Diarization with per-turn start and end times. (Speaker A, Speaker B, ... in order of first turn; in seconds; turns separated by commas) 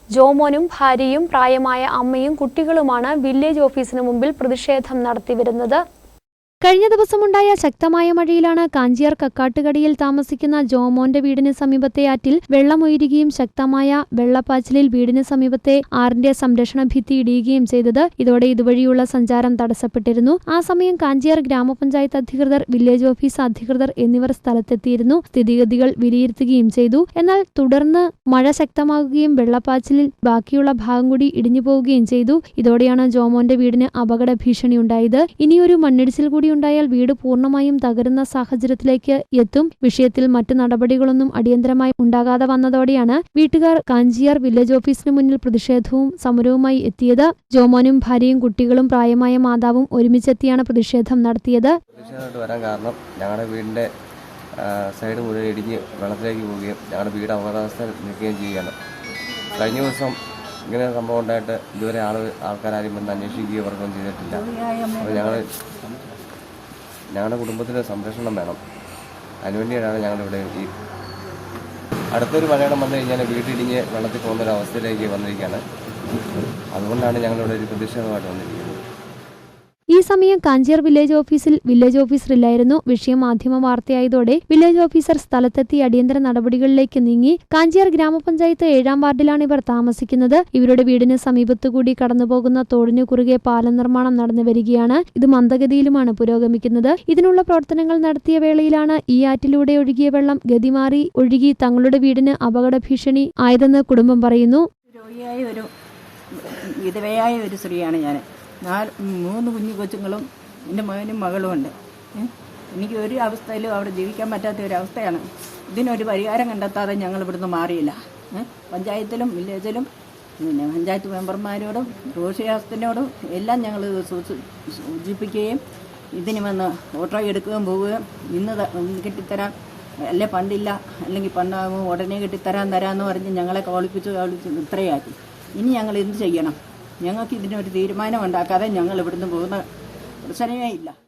Speaker A: 0.1-5.8, Speaker A: 6.6-51.8, Speaker B: 51.9-53.9, Speaker B: 54.6-58.7, Speaker B: 59.5-60.2, Speaker B: 60.7-64.4, Speaker C: 64.3-65.4, Speaker B: 65.0-65.5, Speaker B: 67.1-68.6, Speaker B: 69.4-70.8, Speaker B: 72.1-75.6, Speaker B: 76.8-78.8, Speaker A: 79.9-104.7, Speaker C: 104.9-105.7, Speaker C: 106.3-119.9, Speaker C: 120.4-125.6, Speaker C: 126.2-129.5, Speaker C: 130.1-139.6, Speaker C: 140.3-140.9